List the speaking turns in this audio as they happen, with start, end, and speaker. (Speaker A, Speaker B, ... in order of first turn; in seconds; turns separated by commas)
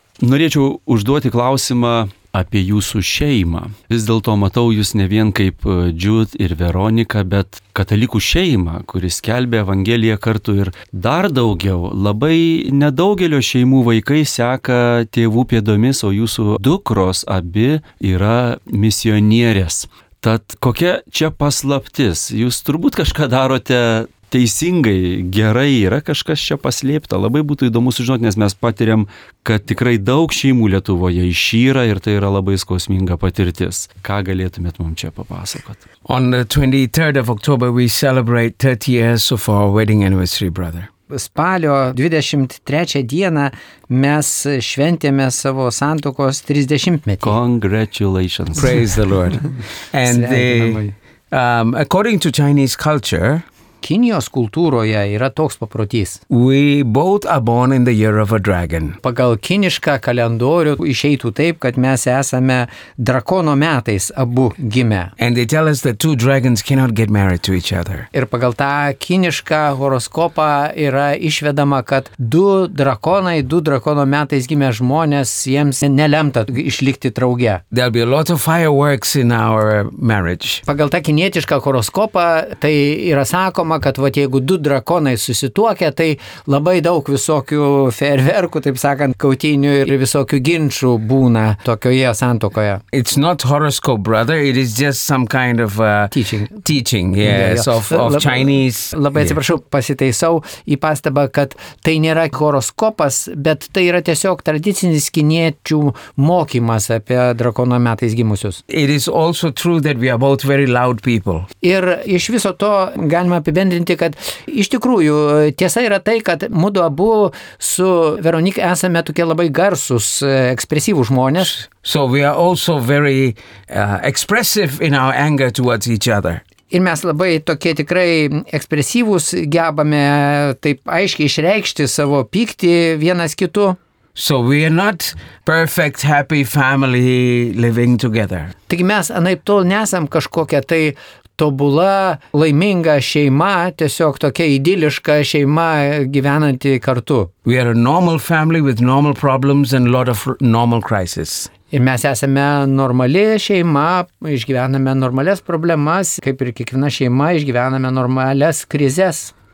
Speaker A: 0.2-35.8, Speaker B: 36.0-40.9, Speaker C: 41.1-47.4, Speaker A: 47.2-48.9, Speaker B: 48.5-53.5, Speaker C: 50.0-50.9, Speaker C: 53.8-56.2, Speaker B: 56.3-59.0, Speaker C: 59.0-65.1, Speaker B: 65.2-68.1, Speaker C: 68.1-77.6, Speaker B: 77.7-80.6, Speaker C: 80.7-92.8, Speaker B: 92.9-99.4, Speaker C: 96.1-96.5, Speaker C: 97.2-108.6, Speaker B: 108.7-111.5, Speaker C: 111.6-121.6, Speaker B: 121.6-126.4, Speaker C: 126.7-133.8, Speaker B: 134.2-138.6, Speaker C: 138.7-147.3, Speaker B: 147.4-151.5, Speaker C: 151.7-159.3